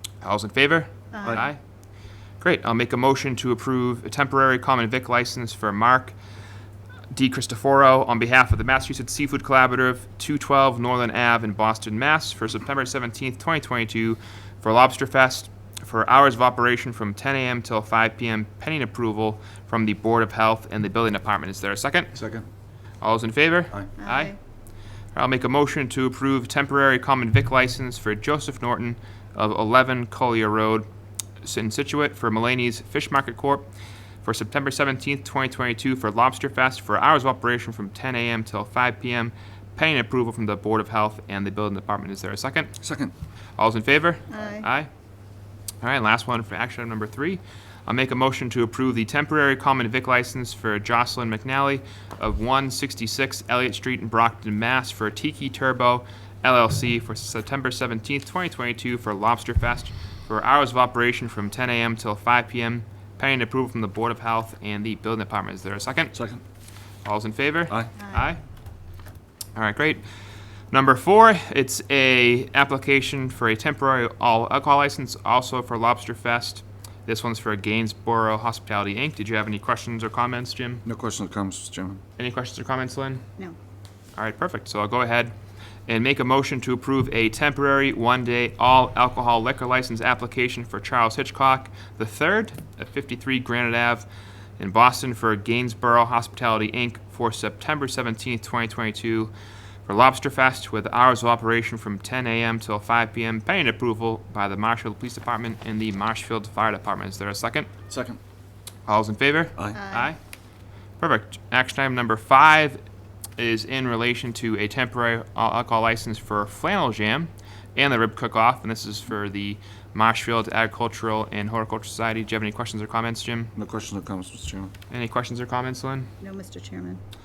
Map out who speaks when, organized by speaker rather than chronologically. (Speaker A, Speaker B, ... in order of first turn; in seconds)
Speaker A: 0.2-1.6, 2.4-6.1, 7.1-22.1, 23.0-24.3, 25.1-30.9, 31.4-33.7, 34.2-42.7, 43.6-44.9, 45.8-66.1, 67.0-68.4, 69.5-70.0, 70.7-80.8, 82.2-83.2, 84.2-85.3, 85.9-94.0, 94.6-99.3, 99.8-107.7, 108.8-110.2, 111.0-112.8, 113.4-123.5, 124.9-126.1
Speaker B: 1.1-1.4, 24.0-24.4, 44.3-44.6, 68.0-68.3, 109.7-110.1, 126.2-127.0
Speaker C: 22.1-22.4, 42.8-43.1, 66.1-66.4, 80.8-82.0, 107.9-108.2, 123.5-124.7